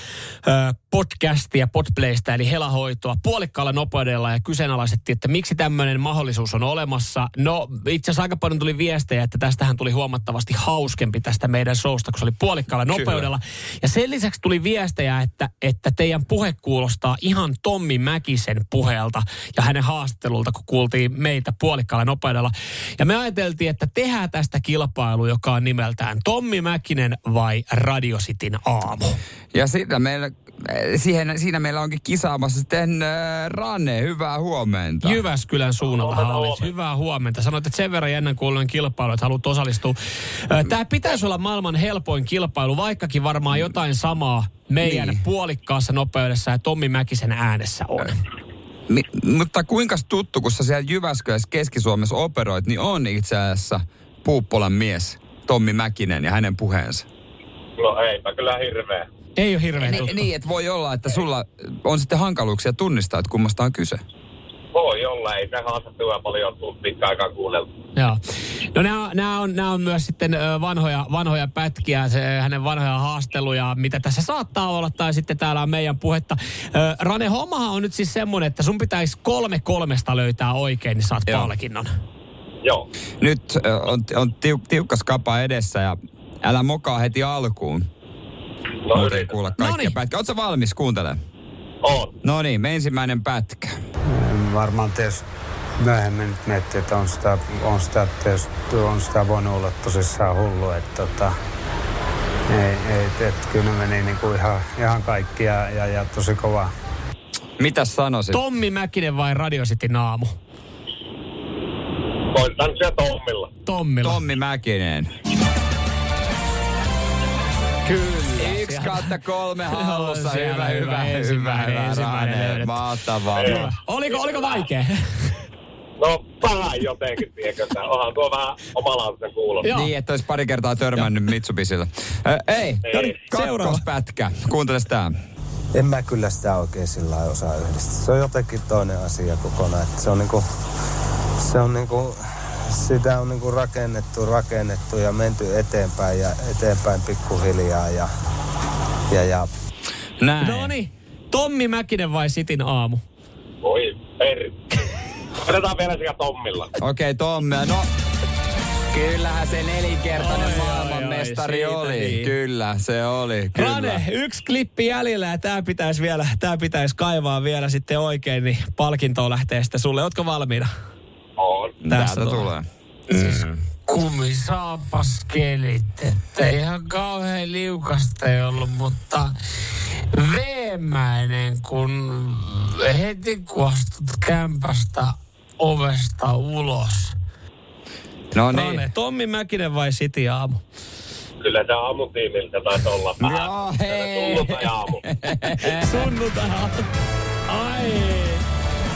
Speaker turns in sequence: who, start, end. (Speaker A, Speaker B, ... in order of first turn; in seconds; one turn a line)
Speaker A: 0.4-29.2
Speaker B: 12.9-13.3
Speaker B: 29.5-35.2
Speaker A: 35.0-48.2
Speaker C: 35.9-36.7
Speaker B: 44.8-45.2
Speaker B: 48.9-57.1
Speaker C: 57.8-59.1
Speaker A: 59.4-60.2
Speaker B: 59.8-64.0
Speaker C: 64.7-67.7
Speaker A: 68.7-81.9
Speaker B: 81.3-81.5
Speaker B: 83.2-87.9
Speaker C: 88.8-89.4
Speaker B: 88.9-91.2
Speaker A: 89.6-90.0
Speaker C: 91.8-92.1
Speaker B: 92.2-93.8
Speaker D: 94.1-95.2
Speaker D: 95.8-101.3
Speaker D: 102.5-106.7
Speaker B: 107.6-108.4
Speaker A: 108.3-110.3
Speaker C: 112.3-113.5
Speaker A: 113.7-114.2
Speaker B: 114.0-115.1
Speaker B: 117.8-123.7
Speaker A: 118.3-119.2
Speaker A: 119.7-122.8
Speaker C: 123.4-124.7
Speaker A: 123.5-125.0
Speaker C: 126.0-129.7
Speaker A: 129.6-129.9
Speaker B: 129.7-135.1
Speaker C: 132.8-133.1
Speaker A: 132.9-133.8
Speaker E: 135.7-140.4
Speaker E: 141.4-142.2
Speaker E: 142.7-148.1
Speaker E: 149.1-149.5
Speaker B: 150.2-150.7
Speaker A: 150.4-153.0
Speaker C: 153.6-154.6
Speaker C: 155.4-156.7
Speaker B: 156.8-157.9
Speaker B: 158.9-164.0
Speaker A: 160.2-162.3
Speaker A: 163.5-170.7
Speaker C: 171.4-171.7
Speaker B: 171.8-173.6
Speaker A: 171.9-172.5
Speaker A: 173.1-179.3
Speaker A: 180.1-187.1
Speaker B: 188.3-188.8
Speaker A: 188.5-190.6
Speaker C: 191.4-195.0
Speaker B: 193.2-196.1
Speaker A: 195.6-196.8
Speaker A: 197.5-198.4